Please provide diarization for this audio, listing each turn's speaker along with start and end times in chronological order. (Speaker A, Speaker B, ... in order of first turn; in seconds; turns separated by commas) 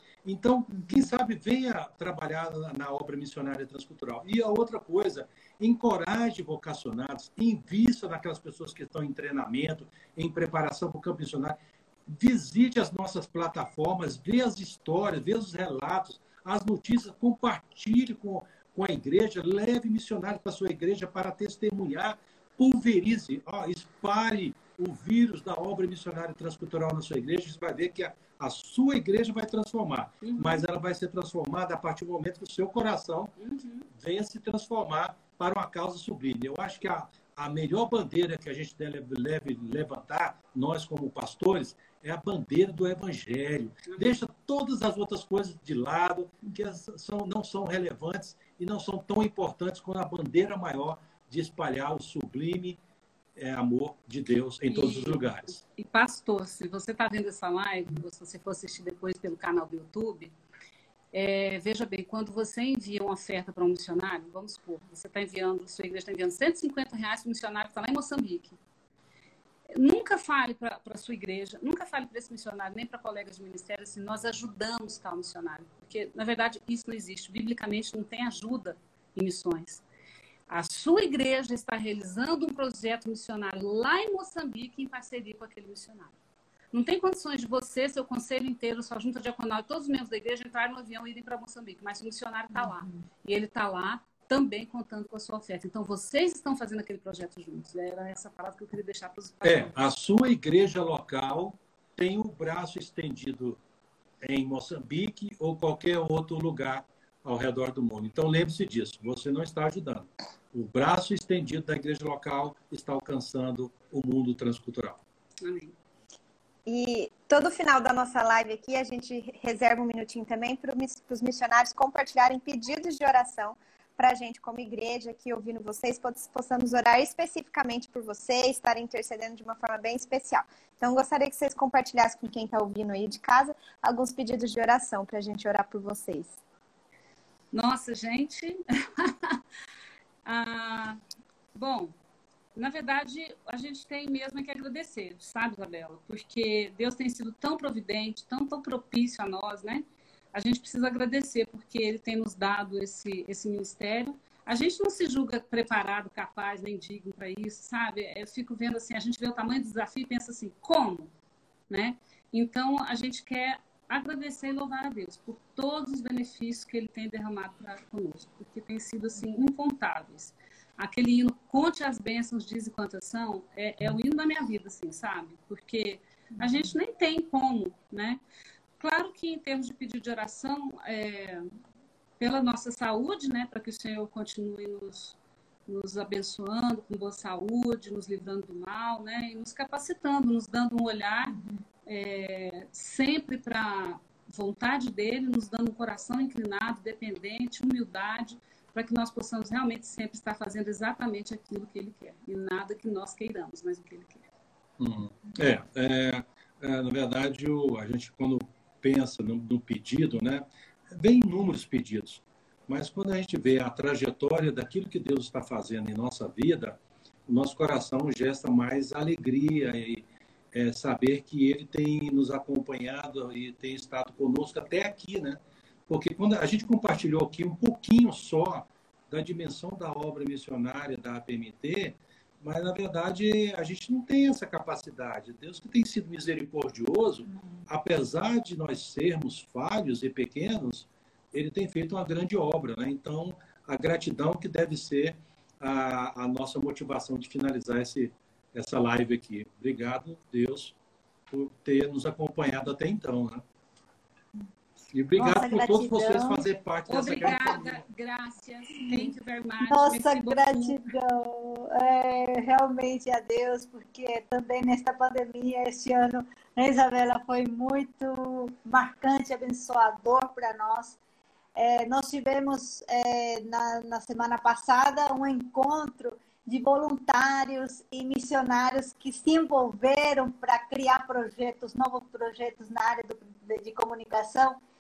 Speaker A: 0.2-11.6, Speaker A: 12.1-33.3, Speaker B: 30.2-30.6, Speaker B: 33.4-33.9, Speaker A: 33.9-52.8, Speaker B: 43.9-44.2, Speaker A: 53.4-55.6, Speaker B: 54.7-60.3, Speaker B: 61.1-68.6, Speaker B: 69.7-79.8, Speaker B: 80.5-86.1, Speaker B: 86.7-99.8, Speaker C: 92.5-93.0, Speaker A: 99.4-103.6, Speaker A: 104.2-115.0, Speaker B: 115.4-115.8, Speaker D: 116.7-136.4, Speaker B: 137.5-139.4, Speaker B: 140.2-141.0, Speaker B: 141.6-141.9, Speaker B: 142.6-161.1, Speaker B: 161.7-178.2, Speaker B: 178.8-181.5, Speaker B: 182.2-185.2, Speaker B: 185.7-204.3, Speaker A: 204.8-250.8, Speaker A: 251.3-253.4, Speaker A: 254.9-257.8, Speaker C: 255.2-256.6, Speaker B: 256.9-260.9, Speaker C: 258.8-271.0, Speaker C: 271.6-284.6